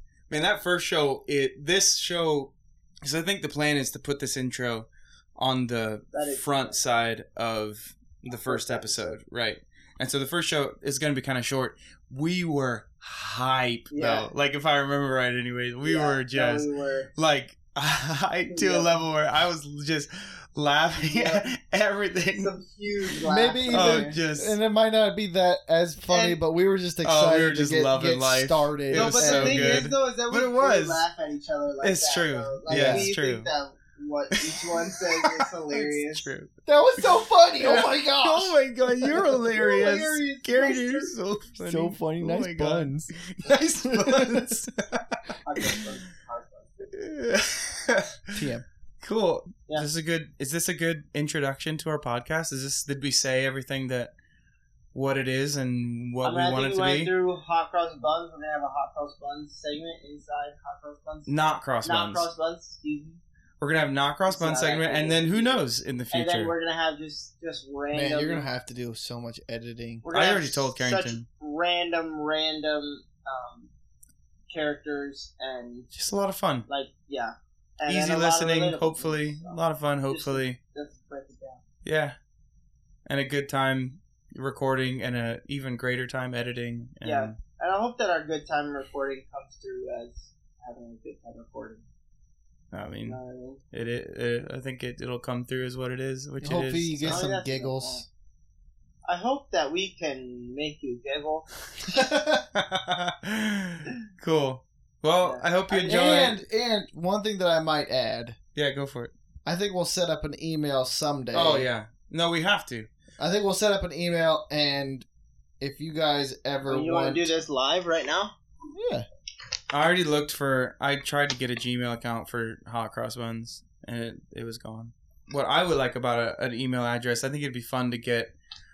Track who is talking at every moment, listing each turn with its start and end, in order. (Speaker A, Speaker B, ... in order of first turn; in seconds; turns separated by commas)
Speaker A: 0.3-22.5, Speaker B: 6.1-6.8, Speaker B: 8.3-9.2, Speaker B: 13.9-14.3, Speaker B: 15.8-17.1, Speaker B: 18.5-19.0, Speaker B: 21.0-21.5, Speaker B: 22.4-24.2, Speaker C: 23.2-29.9, Speaker A: 23.7-24.6, Speaker B: 26.1-26.4, Speaker A: 27.0-31.1, Speaker B: 28.9-36.3, Speaker A: 31.8-33.5, Speaker C: 32.7-33.1, Speaker A: 34.3-36.5, Speaker C: 36.6-39.3, Speaker A: 37.0-45.8, Speaker B: 39.3-41.1, Speaker C: 41.6-43.1, Speaker C: 43.8-44.5, Speaker B: 45.4-46.9, Speaker A: 46.9-48.4, Speaker C: 48.3-48.6, Speaker A: 49.0-54.1, Speaker A: 54.9-57.1, Speaker B: 56.2-61.3, Speaker A: 61.3-62.3, Speaker B: 61.8-63.2, Speaker A: 63.6-66.5, Speaker B: 64.3-68.5, Speaker C: 67.9-70.0, Speaker B: 70.0-73.7, Speaker A: 70.1-71.2, Speaker B: 74.5-75.9, Speaker A: 75.9-76.7, Speaker B: 76.7-81.6, Speaker A: 77.8-80.6, Speaker A: 81.8-82.2, Speaker A: 83.0-87.3, Speaker B: 87.0-91.8, Speaker A: 92.7-93.2, Speaker B: 93.0-93.6, Speaker A: 93.7-97.2, Speaker C: 96.4-98.0, Speaker B: 97.0-98.0, Speaker B: 99.0-101.5, Speaker A: 101.9-106.4, Speaker B: 105.2-106.0, Speaker C: 105.8-108.4, Speaker A: 108.5-109.1, Speaker C: 109.5-111.7, Speaker A: 111.3-112.9, Speaker C: 113.2-115.0, Speaker C: 115.6-117.3, Speaker B: 116.7-118.3, Speaker C: 118.7-119.0, Speaker A: 119.7-128.3